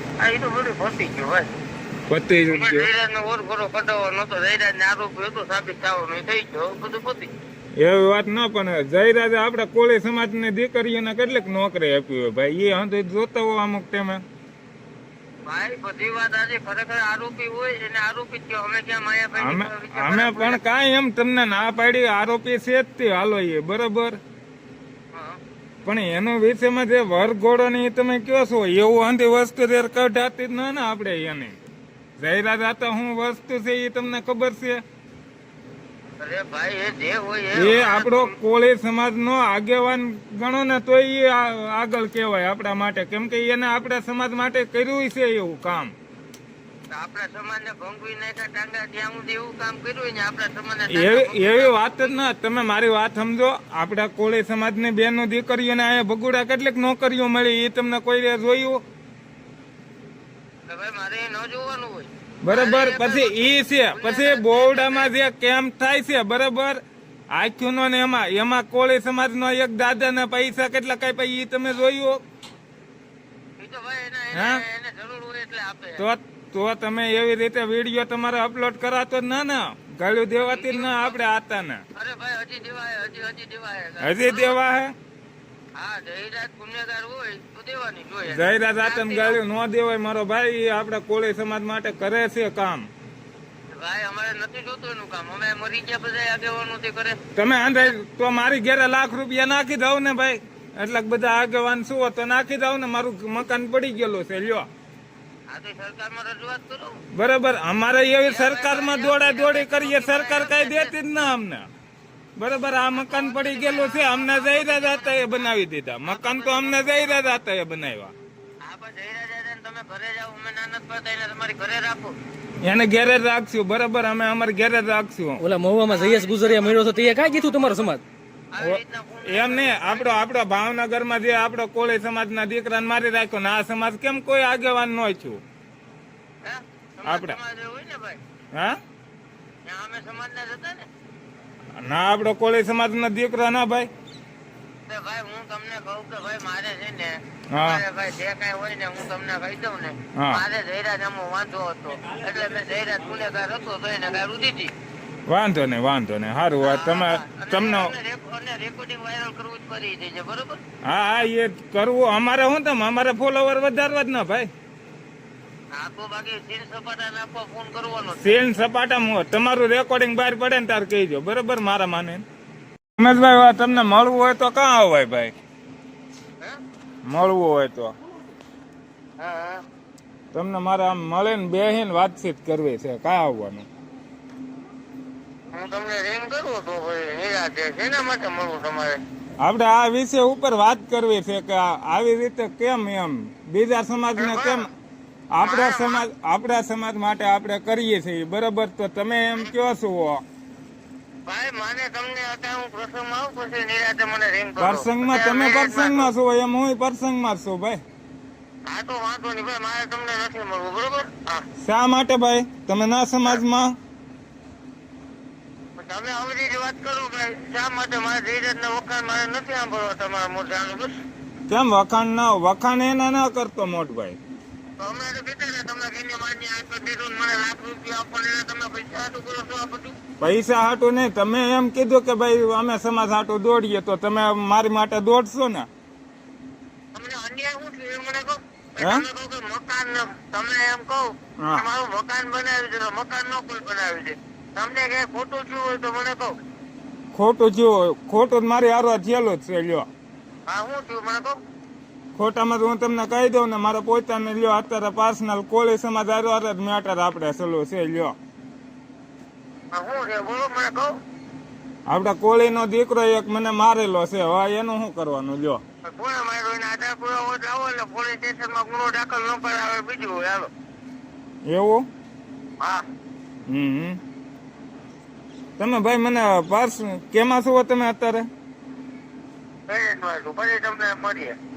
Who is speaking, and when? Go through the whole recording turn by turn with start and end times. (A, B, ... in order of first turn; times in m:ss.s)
0:00.2-0:01.5 A
0:02.1-0:02.9 B
0:02.5-0:07.3 A
0:07.8-0:14.2 B
0:15.4-0:20.6 A
0:19.4-0:24.2 B
0:25.8-0:31.6 B
0:32.2-0:34.8 B
0:36.2-0:38.3 A
0:37.5-0:45.9 B
0:46.9-0:52.2 A
0:50.9-0:58.8 B
1:00.7-1:05.1 A
1:02.4-1:12.2 B
1:13.6-1:16.0 A
1:14.3-1:14.6 B
1:16.0-1:21.8 B
1:20.4-1:21.2 A
1:22.0-1:24.6 A
1:24.0-1:24.9 B
1:25.8-1:29.4 A
1:28.3-1:32.9 B
1:33.7-1:37.2 A
1:37.3-1:44.7 B
1:45.5-1:47.0 A
1:47.1-1:51.7 B
1:48.2-1:50.9 A
1:52.4-1:58.1 B
1:52.9-1:55.5 A
1:56.0-1:57.3 A
1:58.6-2:02.1 A
2:02.6-2:05.4 B
2:05.4-2:08.0 C
2:05.9-2:07.9 A
2:08.5-2:10.1 A
2:08.6-2:15.4 B
2:16.4-2:18.2 A
2:17.0-2:17.4 B
2:18.5-2:18.8 B
2:19.6-2:20.9 A
2:21.8-2:23.9 B
2:24.9-2:34.7 A
2:27.5-2:27.8 B
2:30.1-2:30.4 B
2:35.3-2:37.9 B
2:36.6-2:40.6 A
2:40.8-2:44.5 B
2:45.7-2:48.4 A
2:48.2-2:52.2 B
2:53.0-2:55.3 B
2:57.0-2:57.9 B
2:59.2-2:59.6 A
3:00.3-3:03.7 B
3:05.5-3:09.0 A
3:09.4-3:14.7 B
3:14.2-3:14.7 A
3:15.3-3:20.2 B
3:15.4-3:16.0 A
3:21.2-3:26.1 A
3:24.6-3:27.8 B
3:28.6-3:31.4 A
3:31.6-3:33.7 B
3:35.8-3:40.9 A
3:41.5-3:44.2 B
3:44.8-3:49.9 A
3:50.2-3:55.7 B
3:56.9-4:06.4 A
3:58.8-3:59.0 B
4:01.4-4:01.6 B
4:07.1-4:09.8 B
4:10.5-4:11.4 A
4:12.2-4:18.1 B
4:19.7-4:20.9 A
4:21.9-4:25.6 B
4:25.9-4:30.5 A
4:31.5-4:31.8 B
4:33.5-4:34.0 B
4:35.6-4:38.3 B
4:39.7-4:41.4 A